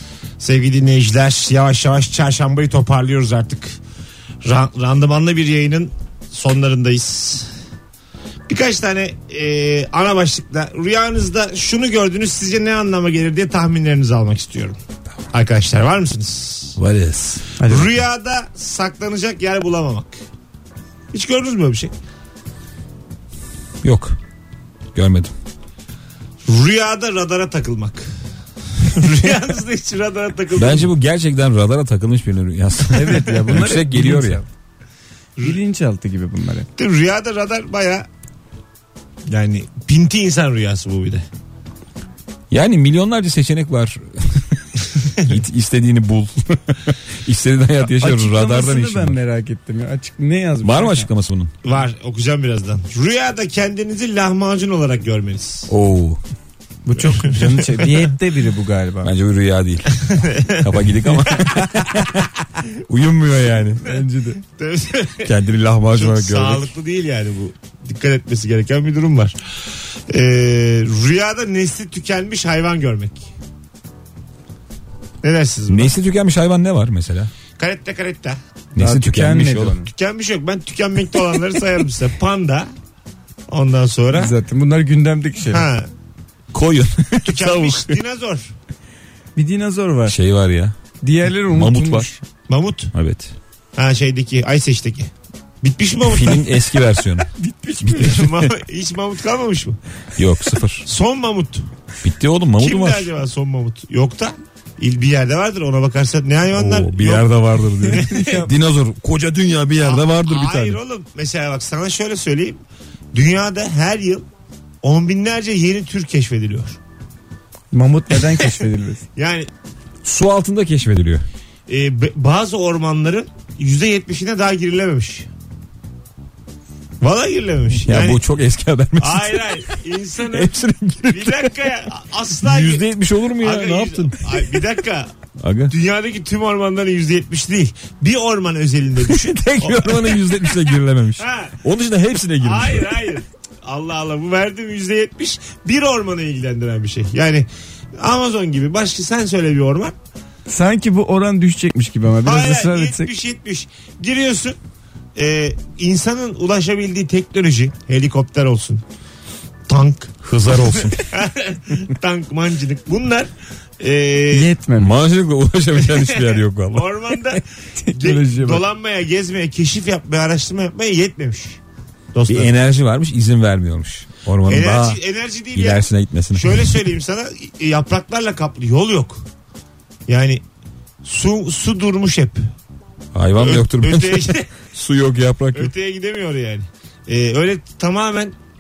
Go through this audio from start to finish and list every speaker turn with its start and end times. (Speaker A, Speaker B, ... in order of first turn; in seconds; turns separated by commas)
Speaker A: 0.4-3.8, Speaker A: 4.4-7.5, Speaker A: 8.5-14.8, Speaker A: 15.3-16.8, Speaker B: 16.8-17.4, Speaker C: 17.6-17.9, Speaker A: 17.6-20.2, Speaker A: 21.1-21.9, Speaker B: 23.8-24.2, Speaker B: 24.9-25.3, Speaker A: 26.4-28.1, Speaker A: 28.8-30.9, Speaker B: 30.5-34.4, Speaker C: 32.9-34.5, Speaker A: 33.1-33.6, Speaker C: 35.4-36.7, Speaker A: 36.8-38.1, Speaker A: 39.3-41.2, Speaker B: 42.5-44.6, Speaker A: 45.0-45.4, Speaker B: 45.2-49.2, Speaker C: 47.8-51.1, Speaker B: 50.6-51.5, Speaker A: 51.6-55.7, Speaker B: 55.7-56.2, Speaker C: 56.9-59.1, Speaker A: 57.0-58.0, Speaker B: 59.0-62.3, Speaker A: 59.9-62.0, Speaker B: 62.9-63.9, Speaker C: 63.8-64.4, Speaker A: 63.9-65.3, Speaker B: 65.2-66.7, Speaker A: 65.9-69.4, Speaker A: 70.1-73.3, Speaker A: 75.2-75.9, Speaker B: 75.7-77.3, Speaker A: 77.6-78.4, Speaker B: 78.7-79.8, Speaker C: 78.8-79.9, Speaker A: 79.8-82.7, Speaker A: 83.5-84.3, Speaker C: 84.1-85.7, Speaker A: 85.5-85.9, Speaker B: 86.5-88.0, Speaker A: 87.2-88.5, Speaker C: 89.3-90.2, Speaker B: 90.1-90.7, Speaker C: 91.0-92.2, Speaker B: 91.4-92.1, Speaker A: 92.5-92.9, Speaker B: 92.9-93.3, Speaker A: 93.8-95.1, Speaker A: 95.6-96.5, Speaker B: 96.1-97.3, Speaker C: 97.4-98.2, Speaker B: 97.8-98.5, Speaker A: 97.9-99.8, Speaker B: 100.2-100.8, Speaker A: 100.8-101.7, Speaker B: 102.0-103.1, Speaker A: 102.6-107.3, Speaker B: 106.5-110.8, Speaker C: 107.9-108.5, Speaker A: 107.9-108.4, Speaker A: 109.8-112.6, Speaker A: 113.1-114.2, Speaker A: 114.8-116.8, Speaker C: 117.7-119.0, Speaker A: 119.2-119.5, Speaker B: 120.0-121.2, Speaker A: 121.7-125.3, Speaker A: 127.0-128.2, Speaker B: 127.8-129.6, Speaker A: 129.0-132.9, Speaker B: 130.2-131.7, Speaker B: 132.4-134.5, Speaker A: 133.4-135.1, Speaker B: 135.4-135.7, Speaker A: 135.7-141.6, Speaker B: 139.0-143.0, Speaker A: 142.4-147.5, Speaker A: 148.0-149.9, Speaker C: 150.5-153.1, Speaker A: 152.2-154.6, Speaker A: 155.1-158.8, Speaker A: 159.7-164.5, Speaker B: 160.2-161.1, Speaker C: 164.3-164.9, Speaker B: 164.8-166.9, Speaker A: 165.8-167.4, Speaker C: 167.8-168.6, Speaker A: 167.9-171.6, Speaker A: 172.1-172.5, Speaker B: 172.3-175.0, Speaker A: 174.5-179.3, Speaker B: 175.5-176.7, Speaker A: 180.1-180.4, Speaker A: 181.0-182.4, Speaker B: 183.1-185.7, Speaker A: 183.3-184.5, Speaker A: 185.5-188.3